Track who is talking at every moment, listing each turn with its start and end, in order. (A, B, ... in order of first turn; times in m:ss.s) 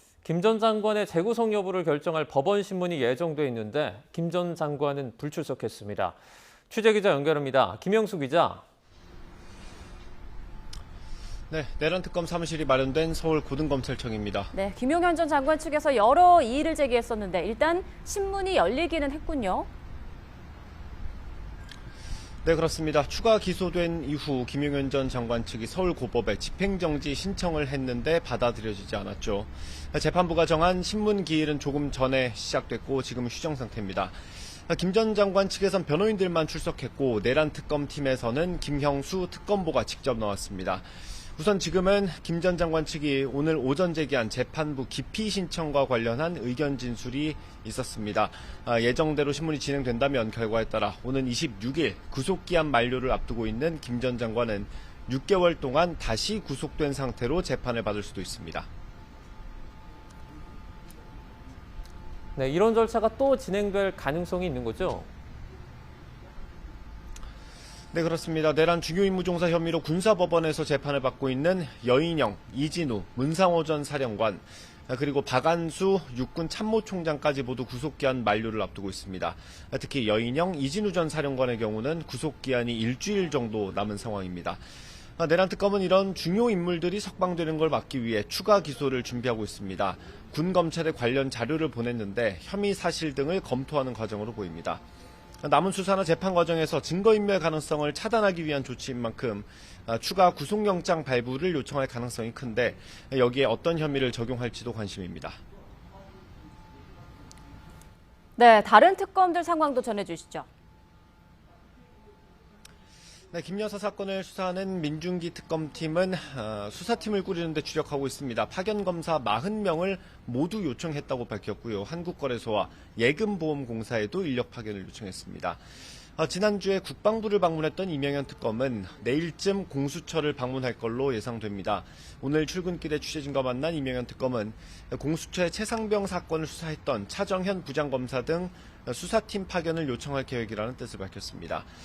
0:00.2-0:06.2 A
0:06.7-0:08.6 A
0:11.5-0:14.5 B
0:14.5-0:19.7 C
0:22.4-0:58.7 B
1:02.4-1:05.1 A
1:07.9-1:24.6 B
1:25.2-1:34.8 B
1:35.4-1:45.4 B
1:48.4-1:50.5 C
1:53.3-2:05.6 B
2:06.2-2:21.7 B